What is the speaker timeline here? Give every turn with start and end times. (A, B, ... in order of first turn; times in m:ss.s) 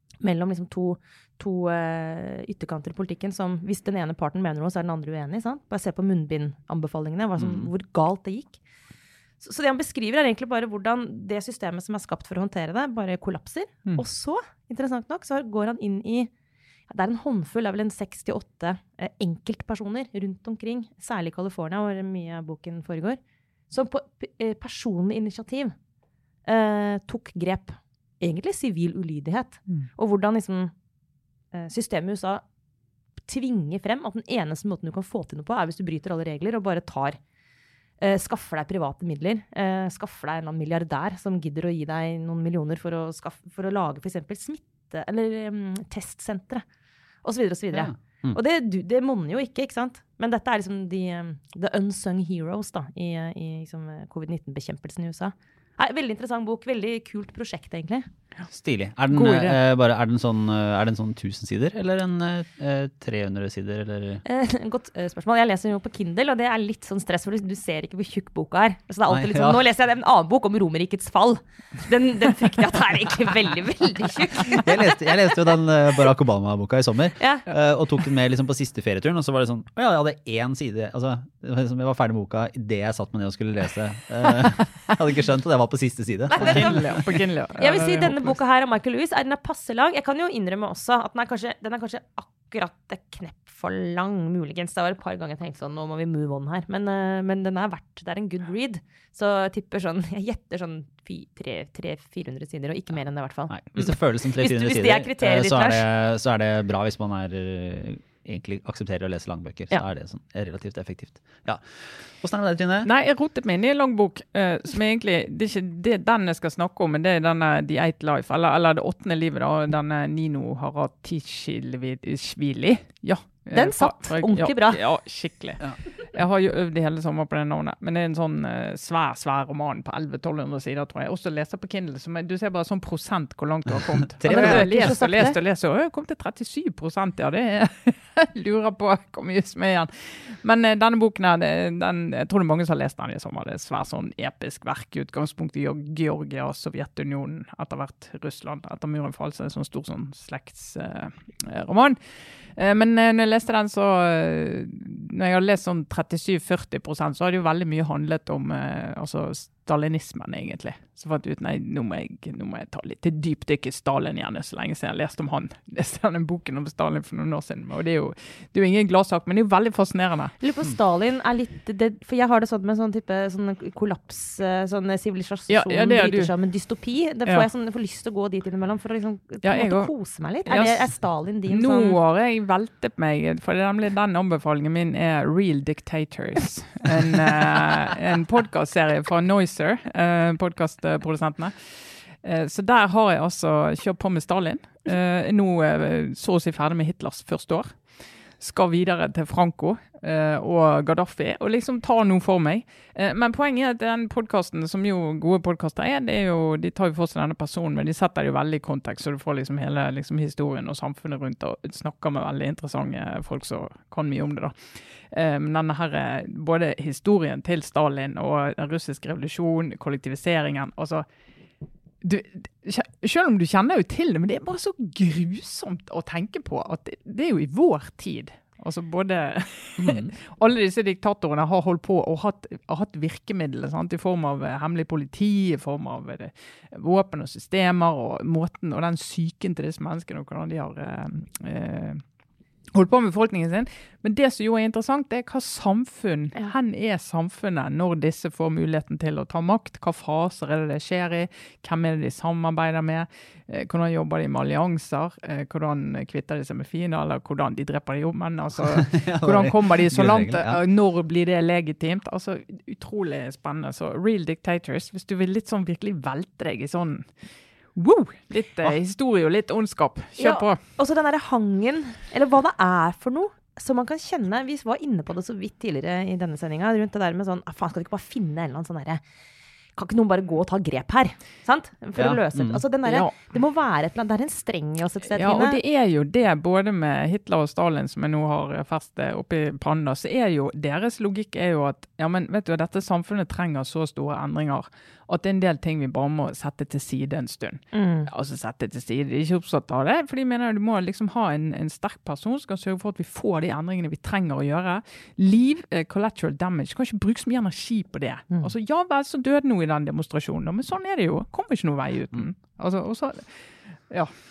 0:00.2-0:08.6 A
0:07.4-0:07.7 B
0:09.4-0:16.3 A
0:16.9-0:25.7 A
0:26.4-0:30.7 A
0:31.5-0:32.4 A
0:33.3-0:37.2 A
0:38.0-0:46.6 A
0:47.2-0:58.1 A
0:47.7-0:48.4 B
0:58.5-1:04.2 B
0:59.1-0:59.6 C
1:04.2-1:15.3 A
1:09.1-1:09.6 B
1:14.4-1:27.1 B
1:17.2-1:17.4 A
1:26.3-1:27.0 A
1:26.4-1:28.4 C
1:27.6-1:45.8 A
1:43.5-1:52.9 B
1:52.8-2:50.3 C
2:03.5-2:04.8 A
2:14.2-2:15.0 B
2:14.3-2:15.4 A
2:50.4-3:02.0 A
2:55.5-2:56.3 C
2:59.4-3:00.9 C
3:01.4-3:41.0 C
3:42.0-4:02.0 C
3:49.8-3:50.1 B
4:02.7-4:27.1 C
4:18.7-4:20.6 B
4:27.7-4:30.6 C
4:30.2-4:39.0 A
4:39.8-4:45.6 A
4:41.9-4:42.6 B
4:42.8-4:43.1 C
4:45.1-5:14.1 C
4:57.7-4:58.1 A